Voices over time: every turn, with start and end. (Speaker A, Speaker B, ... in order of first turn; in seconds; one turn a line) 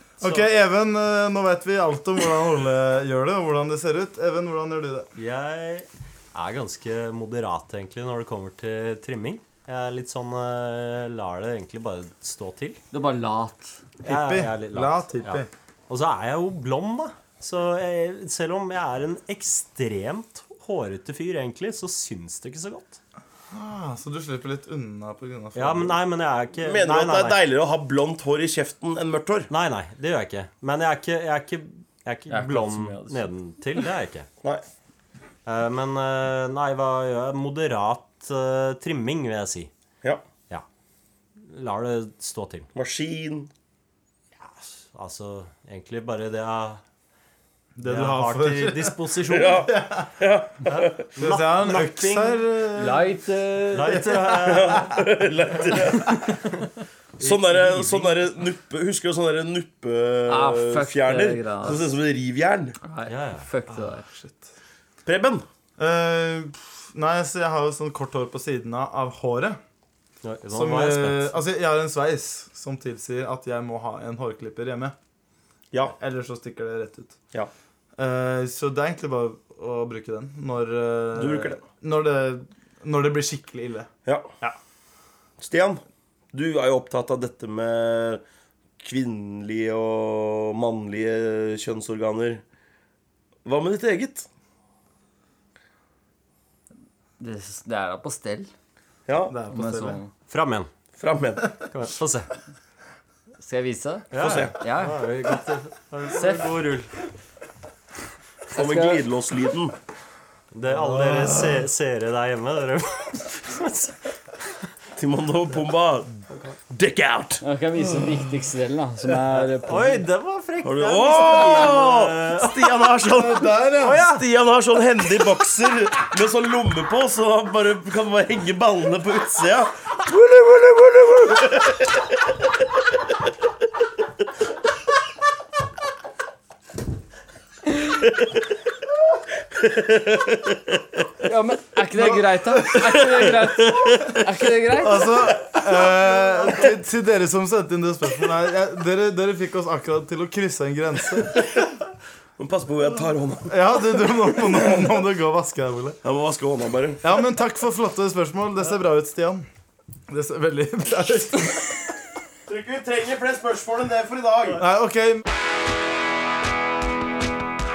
Speaker A: 0.2-5.1
Speaker B: 0.2-0.5
Speaker B: 5.2-12.8
Speaker C: 12.9-13.8
Speaker A: 14.0-15.5
Speaker B: 14.0-23.0
Speaker A: 23.5-26.0
Speaker B: 25.5-27.4
Speaker D: 26.6-29.5
Speaker B: 29.5-34.3
Speaker C: 32.3-33.3
Speaker B: 35.5-39.7
Speaker B: 41.4-42.7
Speaker D: 42.7-43.5
Speaker B: 44.4-46.8
Speaker A: 47.8-50.1
Speaker B: 47.8-49.7
Speaker D: 49.3-51.0
Speaker B: 50.6-52.4
Speaker A: 51.2-53.1
Speaker C: 52.7-54.2
Speaker B: 53.7-55.0
Speaker D: 54.3-56.4
Speaker A: 57.2-58.2
Speaker D: 57.2-62.8
Speaker C: 60.3-61.8
Speaker C: 62.8-64.1
Speaker B: 63.1-63.5
Speaker A: 63.7-64.5
Speaker D: 65.0-65.5
Speaker A: 65.8-69.6
Speaker B: 70.2-71.3
Speaker A: 70.5-74.9
Speaker A: 76.0-77.2
Speaker A: 78.0-83.9
Speaker D: 81.1-81.6
Speaker D: 84.0-84.3
Speaker D: 85.4-88.2
Speaker D: 88.8-92.4
Speaker D: 93.4-94.3
Speaker C: 97.2-98.5
Speaker D: 99.0-99.4
Speaker A: 99.3-100.0
Speaker C: 99.5-100.1
Speaker B: 100.3-100.7
Speaker D: 101.0-101.6
Speaker B: 101.7-102.3
Speaker C: 103.4-105.0
Speaker B: 104.1-106.9
Speaker D: 104.2-104.5
Speaker C: 106.1-106.6
Speaker D: 108.5-109.8
Speaker C: 108.5-109.0
Speaker B: 110.5-113.9
Speaker D: 115.0-117.4
Speaker C: 117.4-120.0
Speaker B: 119.4-122.9
Speaker D: 120.6-132.1
Speaker A: 123.1-124.0
Speaker B: 123.8-124.2
Speaker D: 139.6-140.8
Speaker C: 141.2-145.3
Speaker A: 142.0-142.2
Speaker D: 142.7-144.5
Speaker A: 144.8-151.4
Speaker D: 152.4-154.9
Speaker A: 153.5-156.0
Speaker D: 156.0-157.0
Speaker A: 157.0-159.4
Speaker A: 160.1-161.9
Speaker D: 162.5-164.6
Speaker A: 164.6-165.2